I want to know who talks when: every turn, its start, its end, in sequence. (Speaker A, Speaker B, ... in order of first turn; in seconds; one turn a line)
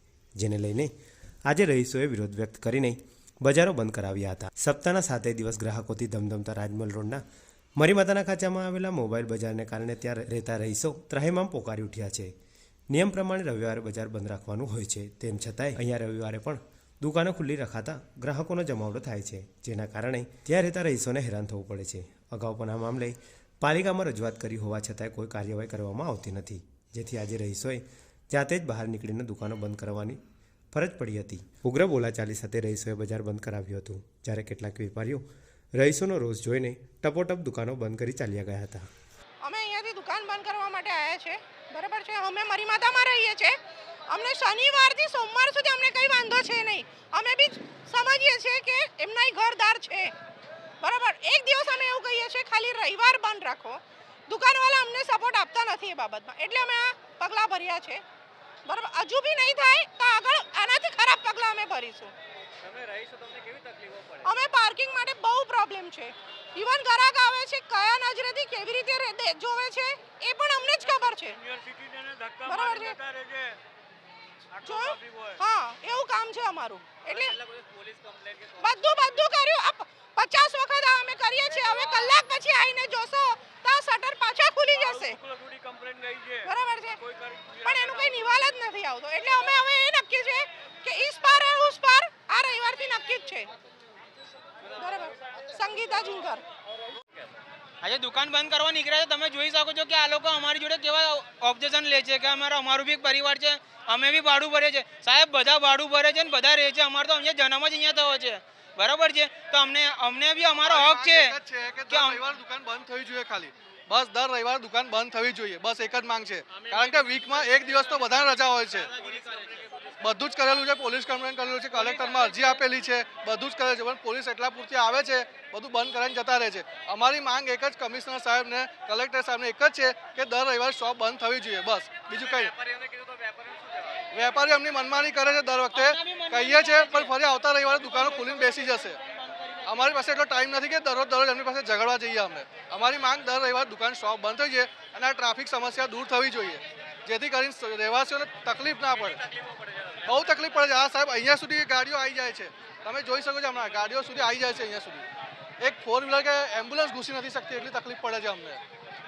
Speaker A: 0.4-0.9
Speaker A: 1.5-7.2
Speaker A: 7.8-12.3
Speaker A: 12.9-30.2
Speaker A: 30.7-35.2
Speaker A: 35.8-38.9
Speaker B: 39.4-43.6
Speaker B: 44.1-50.1
Speaker B: 50.8-58.0
Speaker B: 58.6-62.1
Speaker C: 62.6-64.2
Speaker B: 64.2-71.4
Speaker C: 71.5-72.4
Speaker B: 72.5-73.0
Speaker C: 73.1-73.6
Speaker B: 74.6-77.4
Speaker C: 77.4-78.6
Speaker B: 78.6-85.2
Speaker C: 85.3-86.4
Speaker B: 86.4-87.0
Speaker C: 87.2-87.5
Speaker B: 87.6-93.5
Speaker B: 94.8-96.4
Speaker D: 97.8-111.3
Speaker E: 110.6-119.0
Speaker D: 111.9-112.2
Speaker C: 119.0-119.9
Speaker E: 120.0-132.6
Speaker C: 132.6-134.0
Speaker E: 134.1-139.0
Speaker D: 135.7-137.2
Speaker D: 137.8-139.7
Speaker E: 139.6-149.3
Speaker E: 150.0-155.1
Speaker E: 155.6-158.6